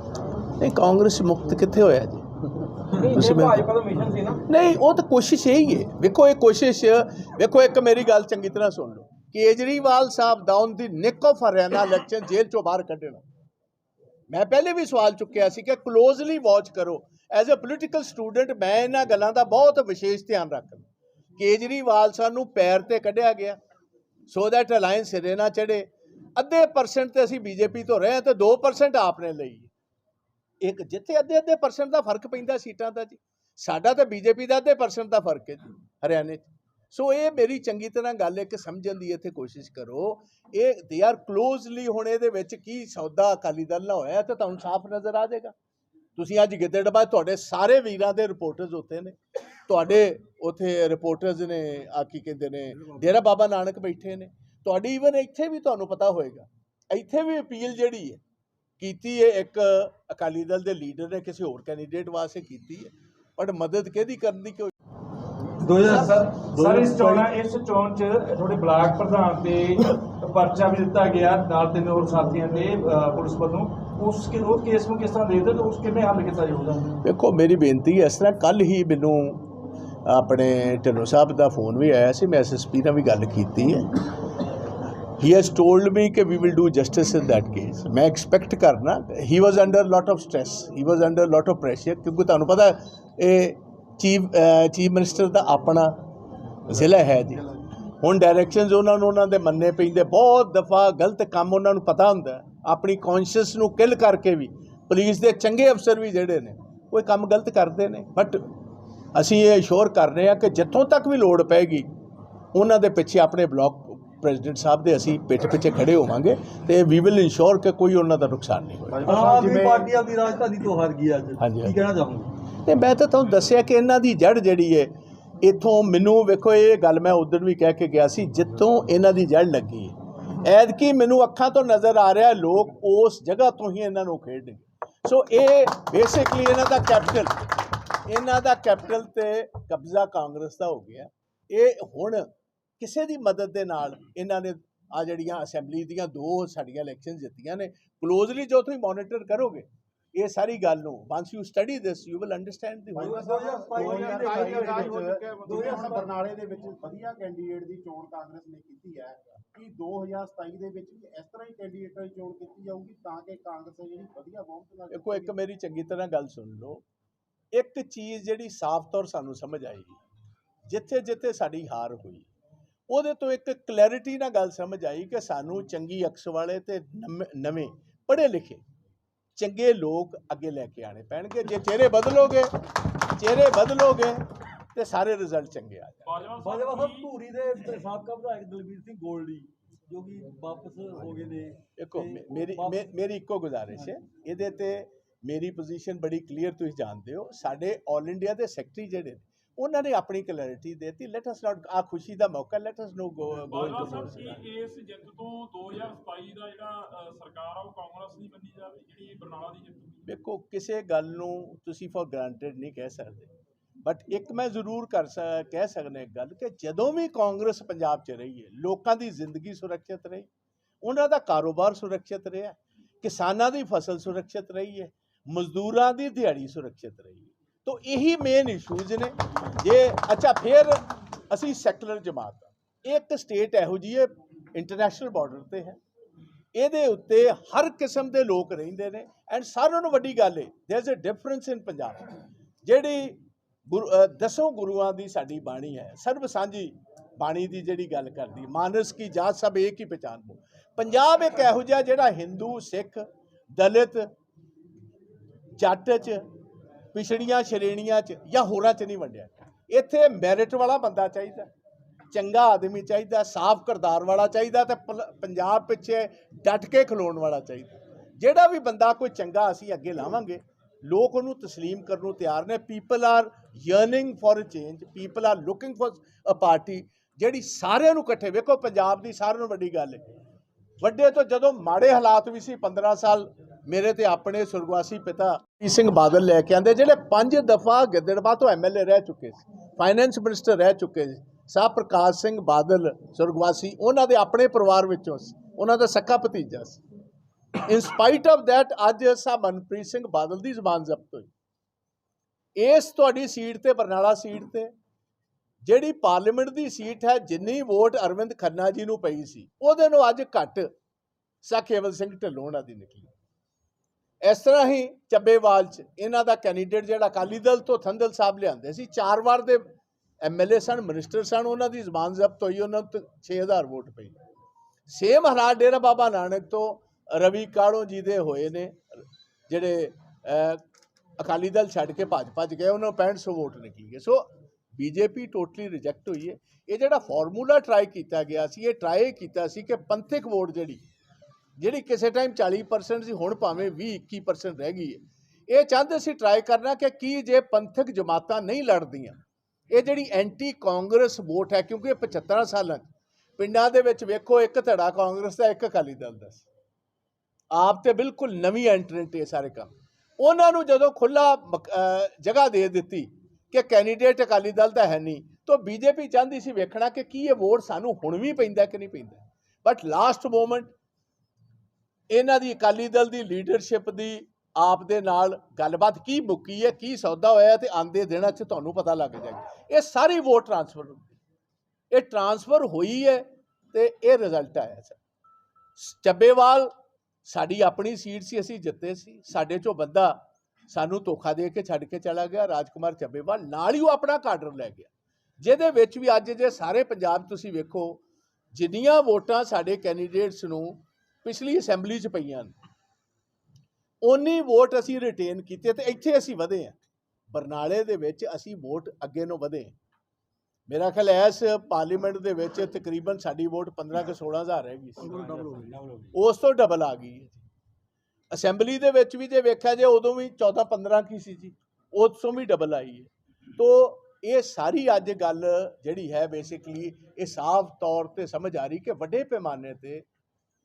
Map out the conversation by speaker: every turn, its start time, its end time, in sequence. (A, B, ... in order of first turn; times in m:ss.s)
0:00.6-0:02.3 A
0:02.8-0:03.7 A
0:03.0-0:04.4 B
0:04.5-0:13.2 A
0:14.3-0:23.6 A
0:24.3-0:29.7 A
0:30.6-0:45.5 A
0:46.2-0:58.2 A
0:58.8-1:04.7 A
1:05.6-1:07.2 C
1:05.8-1:07.3 A
1:05.8-1:17.0 D
1:17.0-1:19.5 A
1:20.0-1:24.0 A
1:25.2-1:36.0 A
1:36.7-1:37.5 A
1:38.0-1:48.5 A
1:49.1-1:51.9 A
1:52.5-1:59.4 A
1:59.0-1:59.9 E
1:59.0-2:02.3 C
2:01.4-2:01.8 A
2:02.6-2:34.6 A
2:33.0-2:36.1 C
2:33.0-2:45.4 E
2:33.9-2:35.8 B
2:44.9-2:46.8 A
2:47.5-2:50.0 A
2:50.7-2:52.3 A
2:52.9-2:58.6 A
2:59.4-3:06.2 A
3:06.0-3:07.1 F
3:06.4-3:12.8 C
3:11.8-3:24.4 A
3:23.4-3:30.1 F
3:30.0-3:33.3 A
3:33.8-3:40.3 A
3:40.8-3:55.8 A
3:56.5-4:02.1 A
4:02.6-4:14.1 A
4:15.6-4:16.3 A
4:16.9-4:21.5 A
4:22.1-4:40.1 A
4:40.8-4:56.8 A
4:57.6-5:01.3 A
5:02.6-5:04.7 A
5:05.6-5:10.7 A
5:11.4-5:13.1 A
5:14.2-5:19.7 A
5:20.2-5:24.2 A
5:24.9-5:30.6 A
5:31.2-5:40.8 A
5:41.6-5:49.2 A
5:49.7-5:56.5 A
5:57.5-6:10.7 A
6:12.1-6:21.1 A
6:21.9-6:25.0 A
6:25.8-6:26.7 A
6:27.2-6:30.2 A
6:30.7-6:38.0 A
6:38.5-6:42.5 A
6:44.0-6:46.8 A
6:47.3-6:49.8 A
6:50.7-6:57.4 A
6:55.1-6:56.0 C
6:58.3-7:10.1 A